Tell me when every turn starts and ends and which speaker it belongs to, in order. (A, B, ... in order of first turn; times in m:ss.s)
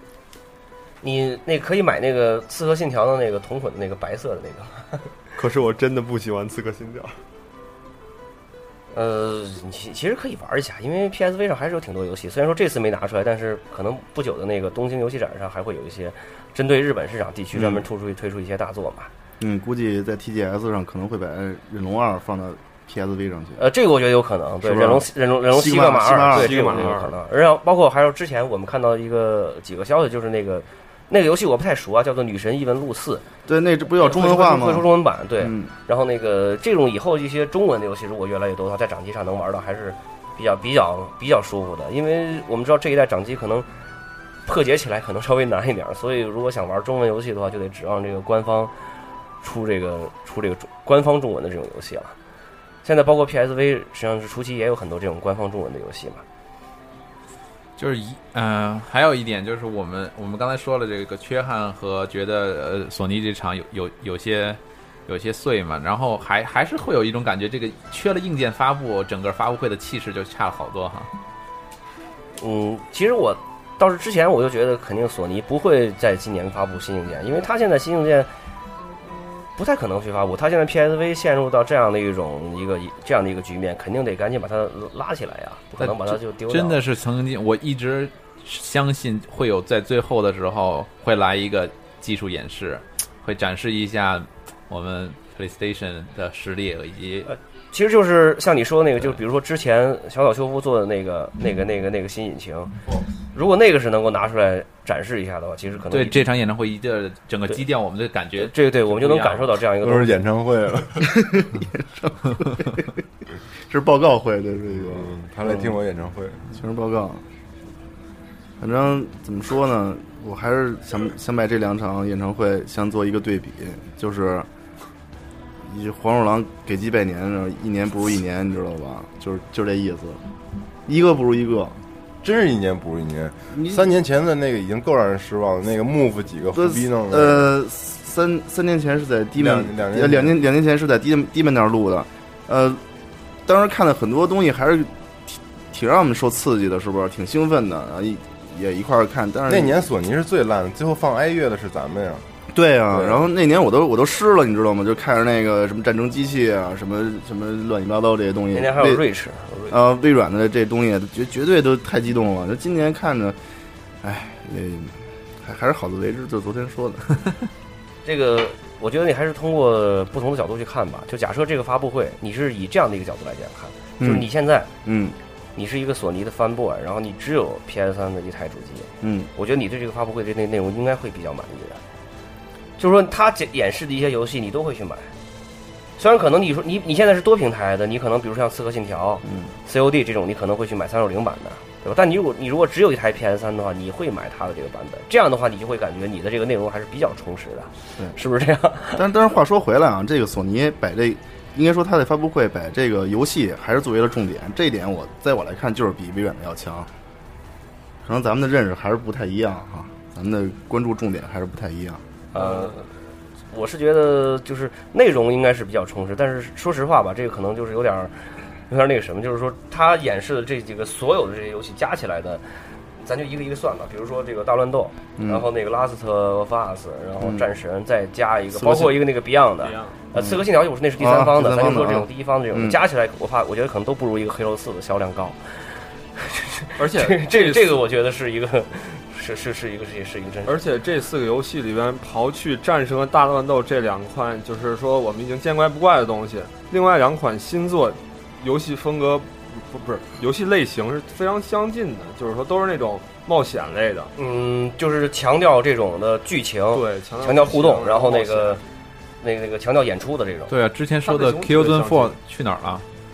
0:01.0-0:05.1 A
0:05.4-0:07.2 B
0:08.9-0:19.1 A
0:17.6-0:17.8 C
0:19.4-0:23.6 C
0:23.6-0:33.3 A
0:24.6-0:26.9 C
0:26.3-0:27.2 B
0:33.5-0:34.9 C
0:34.0-0:43.7 A
0:35.4-0:35.7 C
0:44.5-0:48.7 A
0:49.4-0:52.2 A
0:52.8-0:56.2 A
0:57.8-1:11.1 D
1:12.4-1:18.3 A
1:19.6-1:26.8 A
1:25.8-1:37.3 D
1:37.2-1:42.8 A
1:43.3-1:46.3 A
1:45.9-1:49.5 D
1:48.4-1:50.1 A
1:49.8-1:51.4 E
1:51.0-1:52.9 C
1:53.7-1:55.8 C
1:54.7-1:56.5 E
1:56.5-1:57.2 C
1:58.6-2:04.5 C
2:05.6-2:10.2 C
2:10.9-2:11.8 C
2:12.2-2:17.5 E
2:13.5-2:13.9 C
2:16.5-2:22.8 C
2:19.4-2:20.4 E
2:23.5-2:29.8 C
2:29.5-2:32.3 E
2:32.5-2:39.0 C
2:32.9-2:33.2 E
2:38.5-2:39.8 A
2:39.7-2:43.4 C
2:44.0-2:47.3 C
2:48.0-2:54.7 A
2:54.0-2:54.3 C
2:54.8-2:55.2 C
2:55.6-3:01.8 A
2:59.0-2:59.3 C
3:02.8-3:05.1 A
3:06.0-3:19.0 A
3:09.2-3:09.5 C
3:19.0-3:26.9 C
3:28.0-3:32.0 C
3:32.3-3:32.9 A
3:32.4-3:32.7 B
3:33.5-3:42.4 A
3:43.0-4:00.6 A
3:45.2-3:45.4 C
3:47.2-3:47.5 C
3:48.5-3:49.0 C
3:49.6-3:50.0 B
3:50.2-3:50.4 C
3:51.0-3:52.8 C
3:56.8-3:57.8 B
4:00.5-4:14.1 B
4:14.2-4:18.6 A
4:16.7-4:18.6 B
4:19.2-4:20.5 A
4:20.5-4:22.8 D
4:21.0-4:22.2 B